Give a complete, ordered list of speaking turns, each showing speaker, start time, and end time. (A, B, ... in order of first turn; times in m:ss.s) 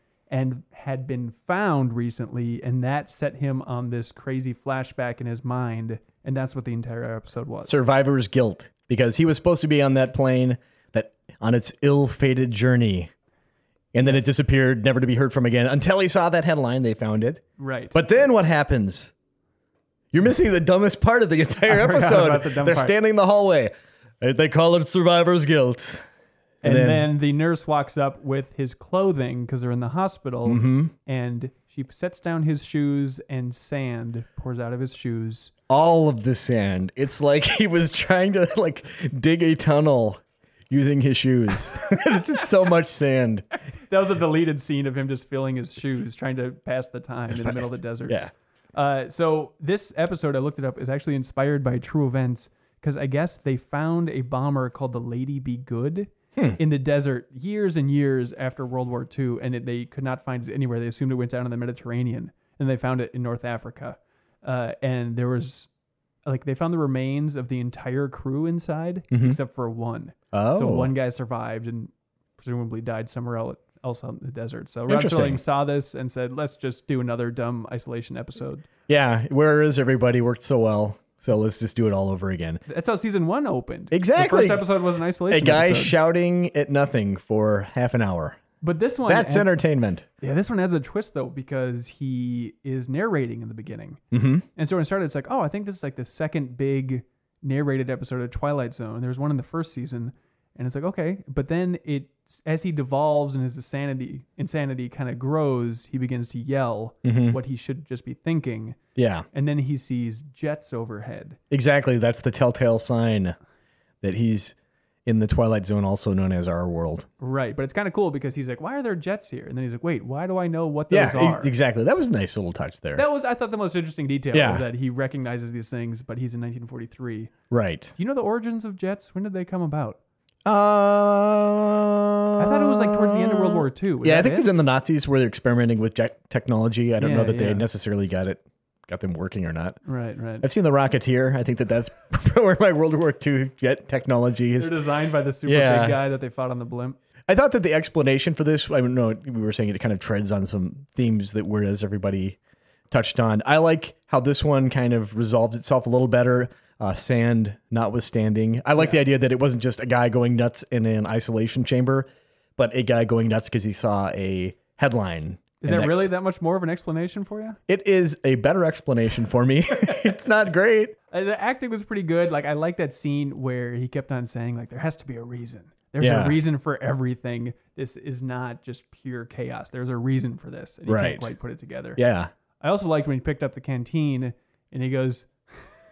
0:00.3-0:07.8 A
0:07.6-0:13.1 B
0:13.9-0:17.4 B
0:17.6-0:18.0 A
0:17.9-0:19.1 B
0:20.1-0:26.1 B
0:21.7-0:22.9 A
0:26.6-0:35.5 A
0:26.6-0:27.1 B
0:30.4-0:30.9 B
0:35.7-0:43.4 B
0:43.8-0:48.2 A
0:47.3-0:48.3 B
0:48.8-1:05.7 A
1:06.2-1:18.7 A
1:09.1-1:09.4 B
1:10.3-1:10.9 B
1:14.9-1:15.4 B
1:18.9-1:22.6 B
1:22.7-1:26.0 A
1:23.9-1:24.6 B
1:25.3-1:28.4 B
1:28.6-1:29.5 A
1:29.1-1:30.1 B
1:30.2-1:34.0 A
1:34.1-1:34.4 B
1:34.6-1:48.8 A
1:47.0-1:47.4 B
1:49.0-1:49.2 B
1:49.3-1:51.4 A
1:51.5-1:53.4 B
1:54.0-1:54.6 B
1:55.1-1:57.1 B
1:57.2-2:01.5 A
2:00.9-2:03.0 B
2:03.0-2:07.3 A
2:04.3-2:04.6 B
2:07.5-2:07.9 B
2:07.9-2:10.0 A
2:10.4-2:19.8 B
2:12.4-2:14.5 A
2:17.0-2:17.6 A
2:19.8-2:20.4 A
2:20.4-2:24.8 B
2:24.6-2:27.0 A
2:25.5-2:26.0 B
2:27.3-2:32.4 B
2:32.9-2:45.9 B
2:38.8-2:39.0 A
2:45.6-2:47.6 A
2:47.7-2:50.9 B
2:51.1-3:02.0 A
2:56.0-2:56.4 B
3:00.9-3:01.3 B
3:02.0-3:02.3 B
3:02.6-3:05.3 A